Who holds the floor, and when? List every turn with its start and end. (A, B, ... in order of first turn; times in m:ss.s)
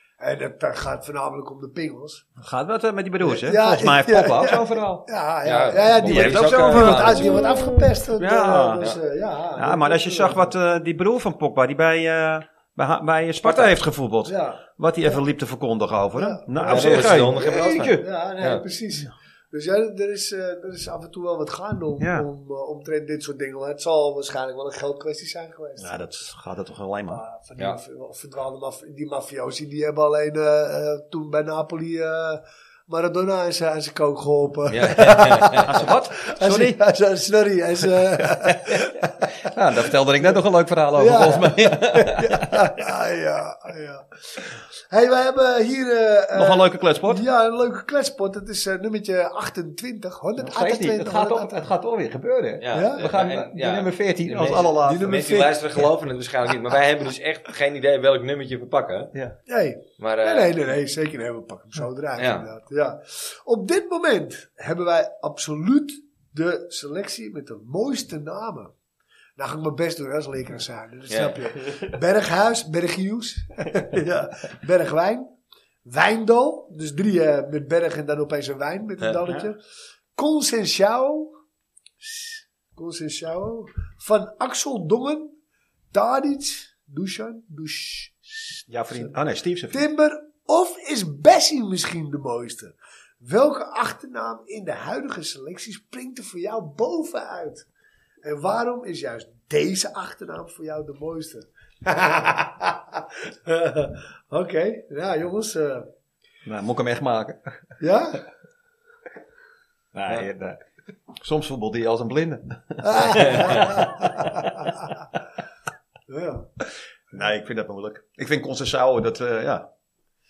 0:00.2-0:02.2 A
0:02.4-0:05.0 B
0:03.2-0:10.5 A
0:05.4-0:07.6 C
0:06.0-0:08.8 B
0:09.6-0:18.0 B
0:13.4-0:13.8 C
0:14.2-0:15.2 A
0:16.2-0:26.0 A
0:16.6-0:18.6 C
0:22.0-0:22.3 B
0:25.8-0:27.2 B
0:27.1-0:39.1 A
0:34.7-0:35.8 C
0:35.6-0:36.8 B
0:38.2-0:42.8 B
0:40.9-0:51.5 A
0:46.3-0:47.2 B
0:50.4-0:55.2 B
0:52.6-0:59.1 C
0:52.7-0:53.0 A
0:54.8-0:55.9 A
0:59.5-1:08.7 A
1:00.0-1:00.5 C
1:02.2-1:02.5 C
1:09.4-1:15.3 A
1:11.1-1:11.4 C
1:15.8-1:19.6 A
1:20.1-1:21.3 A
1:22.0-1:25.3 A
1:25.9-1:29.1 A
1:28.7-1:29.9 B
1:29.7-1:37.6 A
1:38.2-1:45.9 A
1:46.4-1:47.6 B
1:47.8-1:48.2 A
1:49.9-1:50.6 B
1:51.2-1:54.7 B
1:52.8-1:55.0 A
1:53.3-1:53.7 C
1:56.1-1:56.5 A
1:57.1-1:59.7 B